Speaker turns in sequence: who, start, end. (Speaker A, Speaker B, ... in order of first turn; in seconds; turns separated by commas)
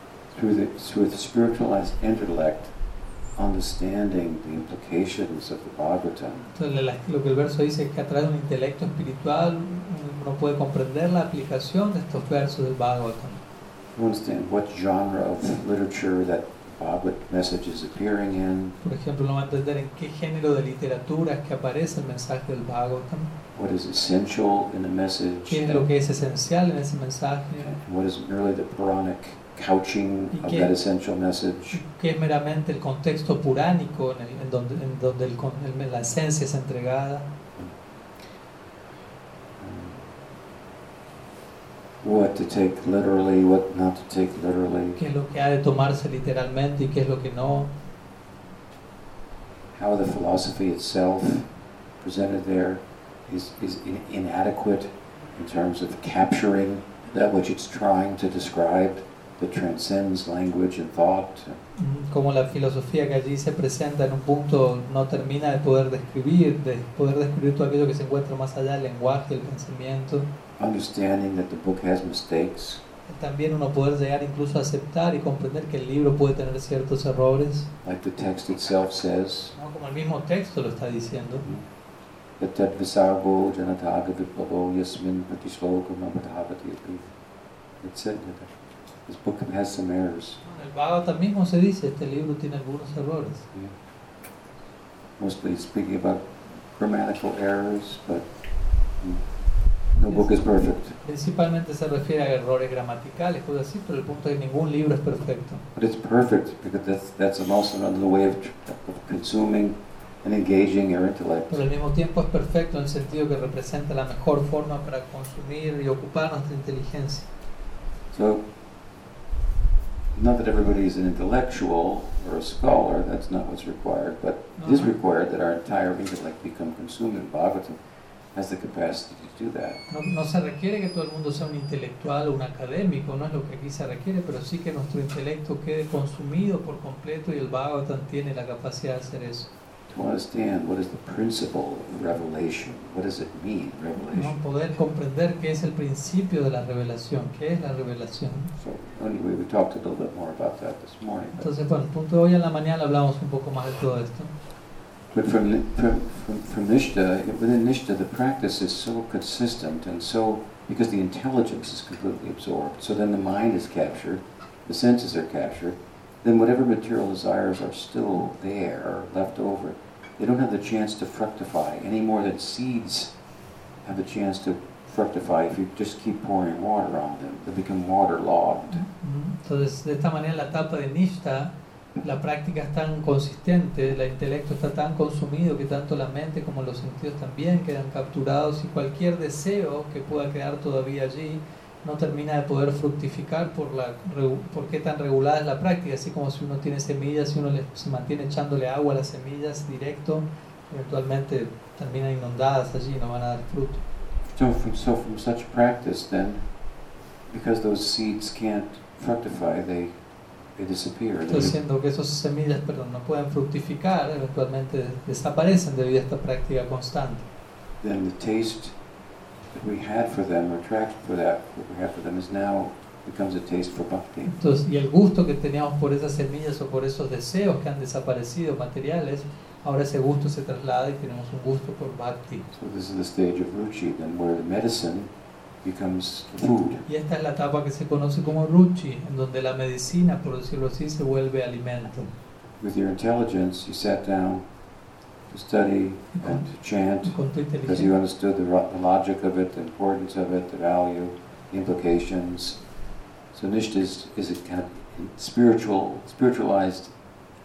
Speaker A: 0.3-2.7, Speaker A: 3.4-6.5, Speaker B: 6.5-13.4, Speaker A: 13.9-18.8, Speaker B: 18.8-23.3, Speaker A: 23.5-25.9, Speaker B: 25.5-27.7, Speaker A: 27.6-31.8, Speaker B: 30.3-30.7, Speaker B: 31.7-37.3, Speaker A: 39.6-40.1, Speaker A: 42.0-45.0, Speaker B: 45.0-47.7, Speaker A: 49.8-51.5, Speaker A: 52.0-61.6, Speaker B: 61.8-70.3, Speaker A: 70.6-72.8, Speaker B: 73.1-77.7, Speaker A: 77.8-79.5, Speaker B: 79.6-81.5, Speaker A: 82.4-87.1, Speaker A: 87.8-88.5, Speaker A: 89.1-90.4, Speaker B: 90.5-93.5, Speaker A: 95.2-98.3, Speaker A: 100.0-101.0, Speaker B: 101.0-105.6, Speaker A: 105.8-111.6, Speaker B: 111.5-117.3, Speaker A: 118.1-118.4, Speaker A: 120.1-127.8, Speaker B: 124.6-124.9, Speaker A: 128.3-129.8, Speaker B: 129.9-139.5, Speaker A: 139.9-144.4, Speaker B: 144.1-148.5, Speaker A: 148.6-151.5, Speaker B: 151.4-154.3, Speaker A: 155.1-173.1, Speaker A: 173.8-178.8, Speaker B: 178.7-203.8, Speaker A: 204.3-206.4, Speaker A: 207.3-209.9, Speaker A: 210.6-211.6, Speaker B: 211.3-217.2, Speaker A: 217.8-218.8, Speaker A: 219.5-224.3, Speaker B: 224.2-232.5, Speaker A: 232.5-235.1, Speaker A: 235.6-236.8, Speaker B: 236.9-242.1, Speaker A: 242.6-244.4, Speaker A: 245.3-252.6, Speaker B: 246.2-246.4, Speaker B: 247.1-247.9, Speaker A: 253.3-256.9